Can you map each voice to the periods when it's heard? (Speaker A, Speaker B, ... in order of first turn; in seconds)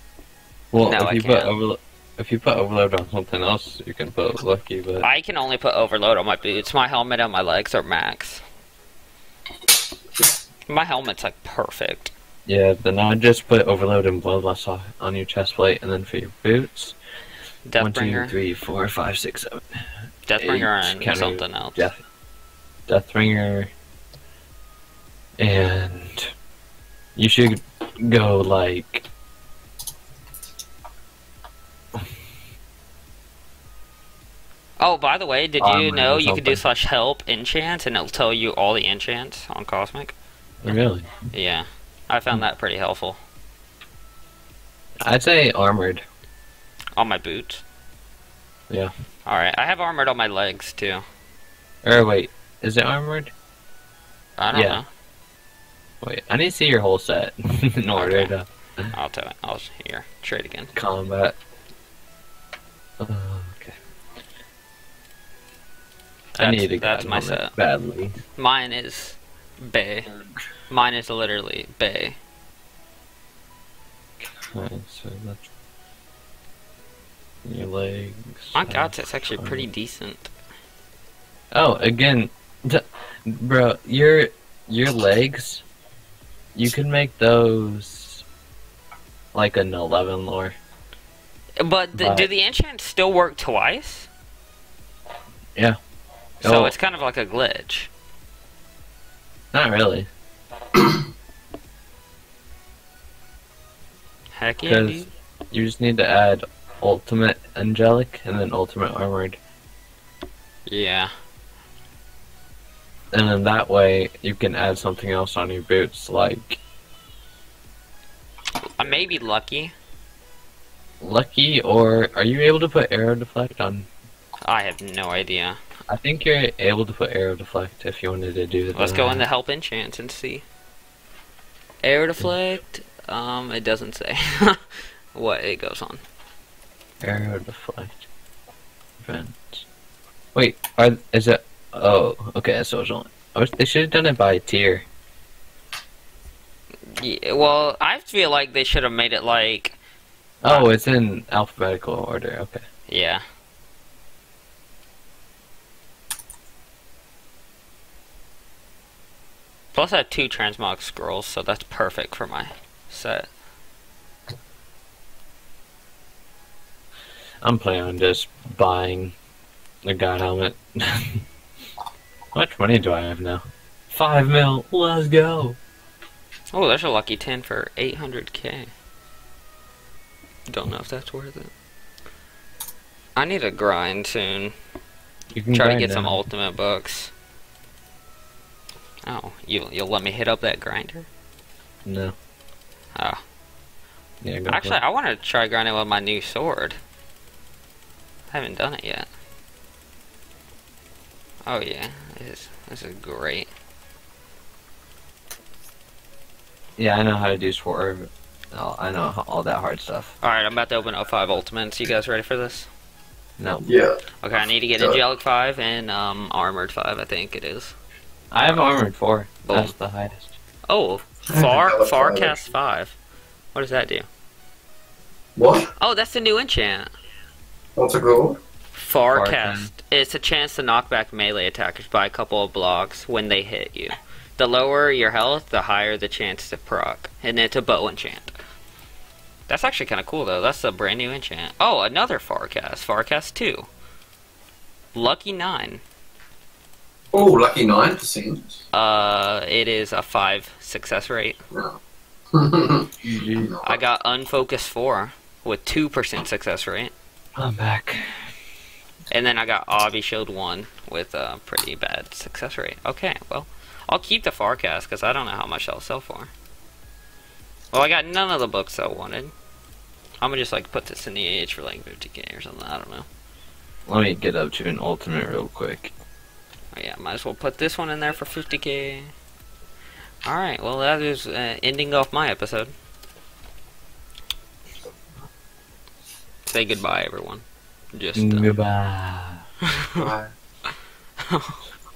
Speaker A: 0.7-5.1, 12.5-17.0, 17.8-19.9, 20.4-22.0, 22.9-23.7, 25.4-26.3, 27.1-29.1, 35.6-36.6, 40.6-41.1, 45.0-46.0, 51.8-53.3, 54.5-54.8, 56.0-58.9, 60.7-61.4, 63.0-63.7, 66.4-68.2, 74.2-75.4, 77.4-79.7, 81.5-85.6, 86.5-88.2, 89.3-90.5, 92.0-92.3, 96.4-96.7, 99.5-100.1, 104.6-109.4, 113.1-116.6, 121.0-123.9, 125.9-129.2, 137.0-138.1, 139.0-139.7, 140.3-144.8, 150.4-152.6, 167.4-169.2, 169.8-171.2, 172.3-175.6, 185.3-186.2, 191.8-192.2, 194.2-194.8, 206.8-210.1, 213.4-213.6, 218.3-220.3, 229.1-229.7, 253.0-253.5, 257.4-258.3, 273.9-275.9, 288.1-289.4
Speaker B: 0.8-1.5, 5.0-8.4, 10.7-12.1, 17.7-18.3, 20.3-21.9, 34.8-40.1, 41.3-43.2, 47.0-47.6, 49.3-51.0, 54.4-54.9, 58.0-58.3, 58.9-60.7, 66.4-67.5, 68.4-70.1, 70.7-72.2, 78.5-80.3, 91.6-94.1, 96.4-97.9, 104.3-105.1, 110.7-111.1, 118.8-119.7, 124.5-125.6, 128.7-130.4, 131.8-136.0, 147.0-149.8, 150.4-150.7, 152.9-153.2, 159.8-163.3, 176.5-178.7, 180.5-181.5, 183.2-184.5, 185.5-187.1, 189.1-191.1, 194.5-196.8, 198.3-199.1, 201.5-203.5, 210.2-212.7, 214.2-217.8, 219.4-219.7, 220.7-223.0, 223.5-224.1, 225.8-226.9, 228.7-238.3, 239.5-243.7, 244.9-245.8, 248.7-251.4, 253.6-256.9, 259.1-266.3, 267.7-269.3, 270.2-273.1, 276.7-279.1, 280.2-282.7, 286.5-288.5, 289.8-290.0, 291.2-291.6
Speaker C: 213.6-214.0, 221.3-222.5, 225.4-225.7, 227.8-228.4, 247.1-248.6, 251.5-251.8, 252.3-253.8, 289.9-290.3